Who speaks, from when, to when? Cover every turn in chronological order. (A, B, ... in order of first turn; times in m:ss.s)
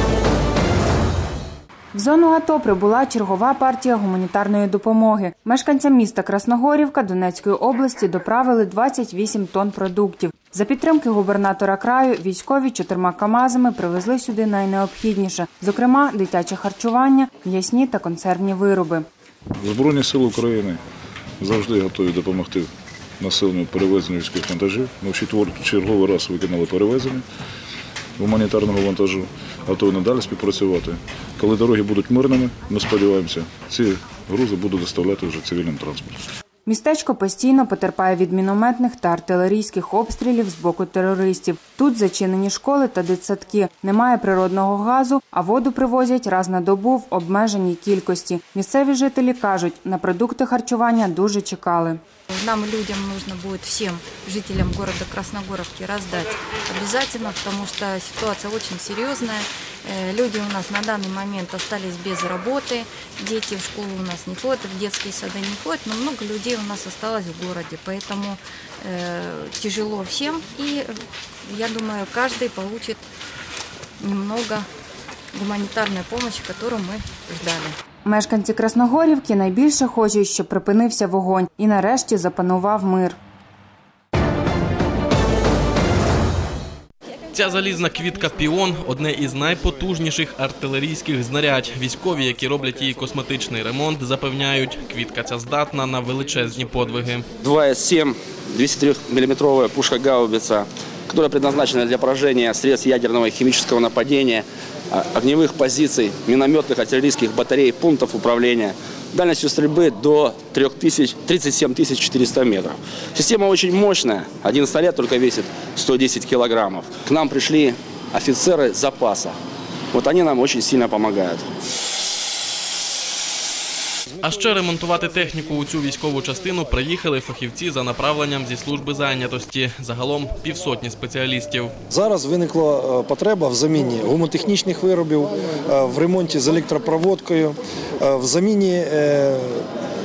0:01.9-0:19.1 A
0:19.6-0:20.8 B
0:21.4-0:22.7 B
0:23.2-0:27.2 B
0:28.2-0:36.2 B
0:36.7-0:52.0 A
0:52.3-1:13.0 C
1:14.0-1:14.7 C
1:15.3-1:17.8 C
1:18.0-1:23.2 A
1:27.3-1:37.2 D
1:37.4-1:59.4 E
1:59.9-2:01.4 E
2:04.2-2:11.7 D
2:04.3-2:04.6 F
2:11.9-2:19.6 F